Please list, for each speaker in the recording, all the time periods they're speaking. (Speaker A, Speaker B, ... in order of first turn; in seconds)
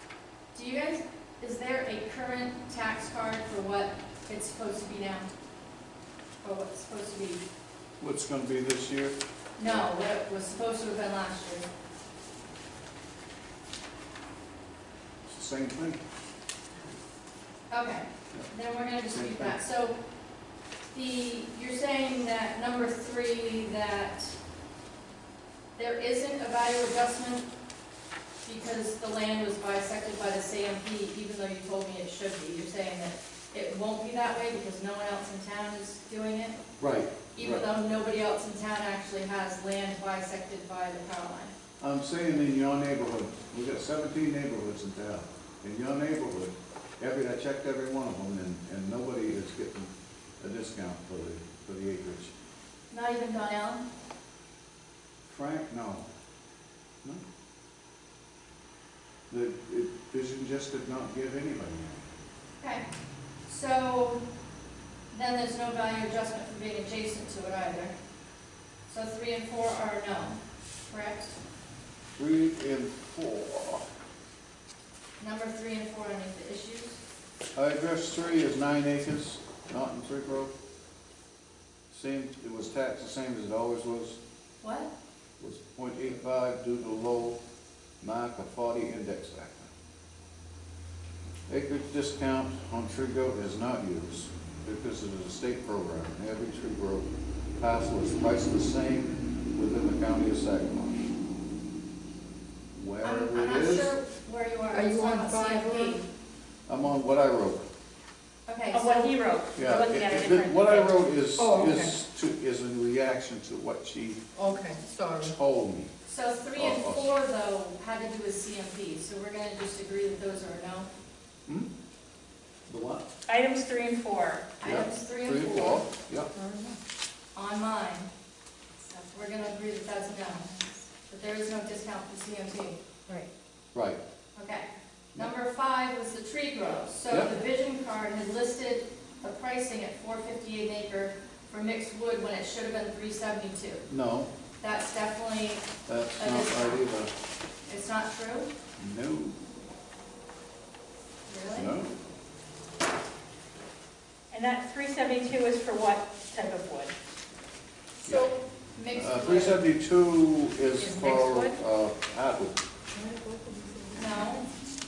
Speaker A: 0.5-5.3, 6.4-7.4, 9.6-11.7, 17.7-20.0, 20.9-24.4, 25.8-27.5, 28.4-36.6, 37.4-41.5, 52.9-53.8, 62.6-62.9, 63.5-64.2, 65.1-68.0, 68.9-71.3, 75.2-77.0, 84.6-84.9, 103.0-106.0, 108.5-109.0, 116.1-120.9, 124.6-125.8, 127.3-128.1, 129.1-130.5, 131.1-132.8, 134.3-143.8, 144.6-146.8, 147.7-148.5, 151.3-151.7, 158.0-159.6, 163.9-164.4
Speaker B: 8.0-9.9, 15.2-16.0, 19.1-19.6, 36.8-37.7, 41.8-52.3, 55.2-56.0, 59.3-62.0, 72.2-73.8, 77.5-80.5, 81.9-84.2, 85.4-87.4, 88.0-89.7, 91.5-101.0, 102.7-104.0, 106.7-107.6, 109.5-114.2, 115.2-115.9, 116.5-117.1, 122.7-123.0, 124.6-126.3, 133.7-134.0, 143.9-144.3, 145.9-147.1, 148.8-149.4, 151.5-151.9, 158.0-158.3, 158.9-162.6
Speaker C: 104.7-106.0, 111.4-111.9, 114.3-115.3, 126.3-126.8, 162.9-164.5
Speaker D: 108.7-111.0, 123.3-124.5, 128.8-130.9, 154.3-156.9, 160.8-161.6